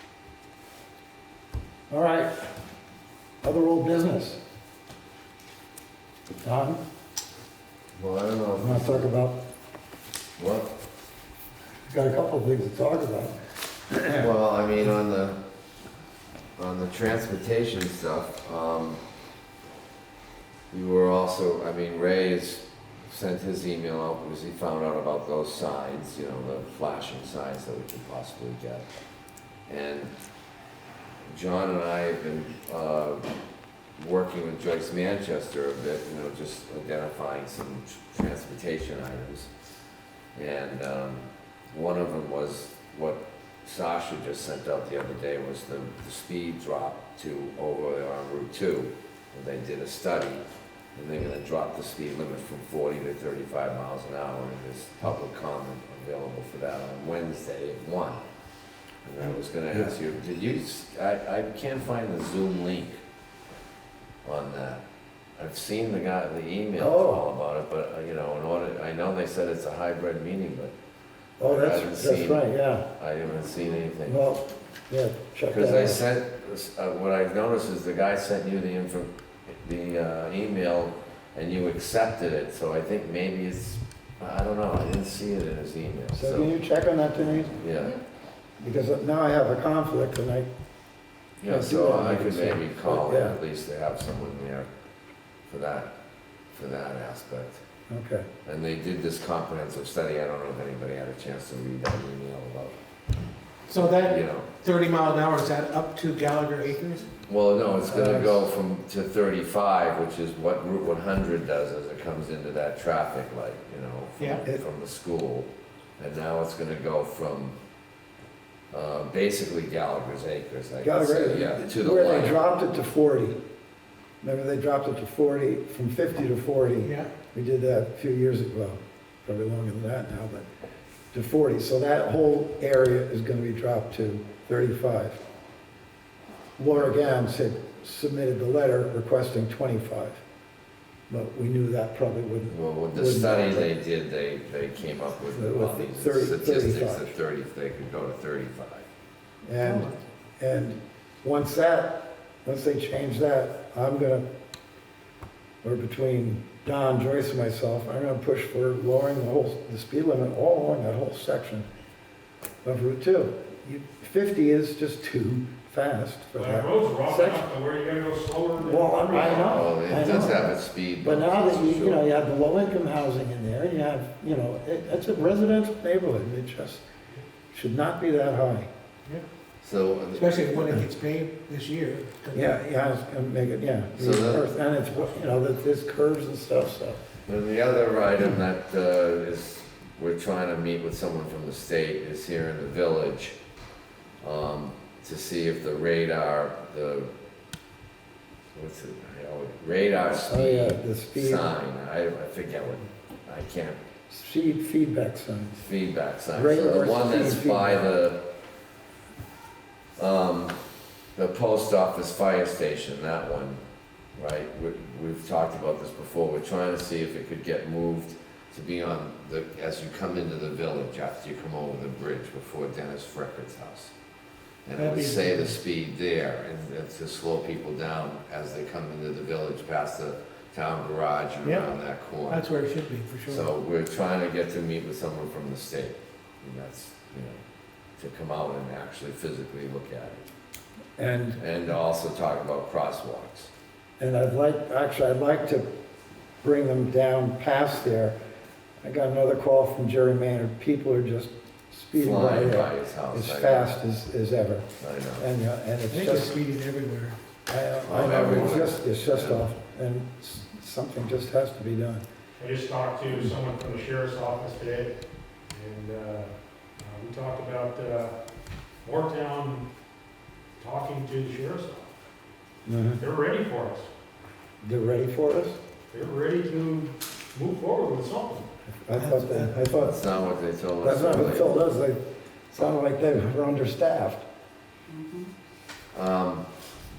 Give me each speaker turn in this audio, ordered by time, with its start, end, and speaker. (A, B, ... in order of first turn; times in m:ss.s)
0:01.9-0:02.5 A
0:03.4-0:04.4 A
0:06.4-0:06.8 A
0:07.9-0:09.1 B
0:08.6-0:09.4 A
0:10.4-0:10.7 B
0:11.9-0:13.4 A
0:13.9-0:14.3 A
0:14.1-0:15.4 B
0:16.6-0:19.0 B
0:20.7-0:28.8 B
0:29.7-0:30.1 B
0:31.3-0:33.3 B
0:34.0-0:39.5 B
0:40.3-0:50.4 B
0:50.9-0:58.2 B
0:59.0-1:03.0 B
1:04.2-1:04.8 B
1:05.4-1:10.7 B
1:06.8-1:07.2 A
1:11.4-1:12.9 A
1:11.4-1:12.4 B
1:13.0-1:14.2 B
1:14.0-1:16.0 A
1:15.5-1:26.5 B
1:26.1-1:27.6 A
1:27.6-1:28.0 B
1:28.6-1:30.5 A
1:31.4-1:34.7 B
1:31.4-1:33.4 A
1:35.5-1:35.9 B
1:36.5-1:37.6 B
1:37.9-1:38.3 A
1:38.4-1:42.8 B
1:43.7-1:47.1 C
1:43.7-1:44.5 B
1:47.3-1:57.5 B
1:47.8-1:48.4 A
1:58.7-2:02.4 B
2:00.8-2:03.4 A
2:04.2-2:10.5 A
2:06.8-2:07.1 C
2:11.1-2:15.2 A
2:16.6-2:20.2 A
2:21.1-2:23.7 A
2:22.5-2:28.8 B
2:25.3-2:27.1 A
2:29.4-2:34.2 A
2:35.6-2:41.7 A
2:42.6-2:47.5 A
2:46.4-2:49.7 D
2:48.6-2:56.8 A
2:49.1-2:52.0 B
2:57.5-2:58.7 A
2:59.6-3:00.8 B
3:00.1-3:02.5 C
3:02.3-3:07.0 A
3:04.0-3:04.5 B
3:07.2-3:13.4 B
3:14.2-3:17.1 B
3:18.5-3:23.8 B
3:20.2-3:21.5 A
3:24.1-3:25.6 A
3:25.6-3:28.2 B
3:26.3-3:27.8 A
3:30.0-3:30.6 B
3:31.1-3:33.6 B
3:34.2-3:43.9 B
3:44.6-3:52.4 B
3:44.8-3:45.5 C
3:52.3-3:53.5 C
3:53.3-3:57.4 B
3:58.0-4:00.2 B
4:01.0-4:01.4 A
4:01.4-4:03.5 B
4:04.0-4:05.7 A
4:06.4-4:08.2 A
4:08.8-4:16.4 A
4:12.0-4:13.7 B
4:14.8-4:15.3 B
4:15.9-4:17.2 C
4:17.5-4:22.0 A
4:17.8-4:19.4 B
4:22.4-4:24.9 D
4:25.5-4:28.2 D
4:28.8-4:29.7 D
4:30.6-4:31.9 D
4:32.6-4:33.0 A
4:33.0-4:33.9 D
4:34.6-4:35.6 A
4:35.9-4:38.5 D
4:38.8-4:40.0 A
4:39.0-4:39.5 C
4:39.7-4:41.5 B
4:40.8-4:44.2 A
4:45.9-4:46.4 B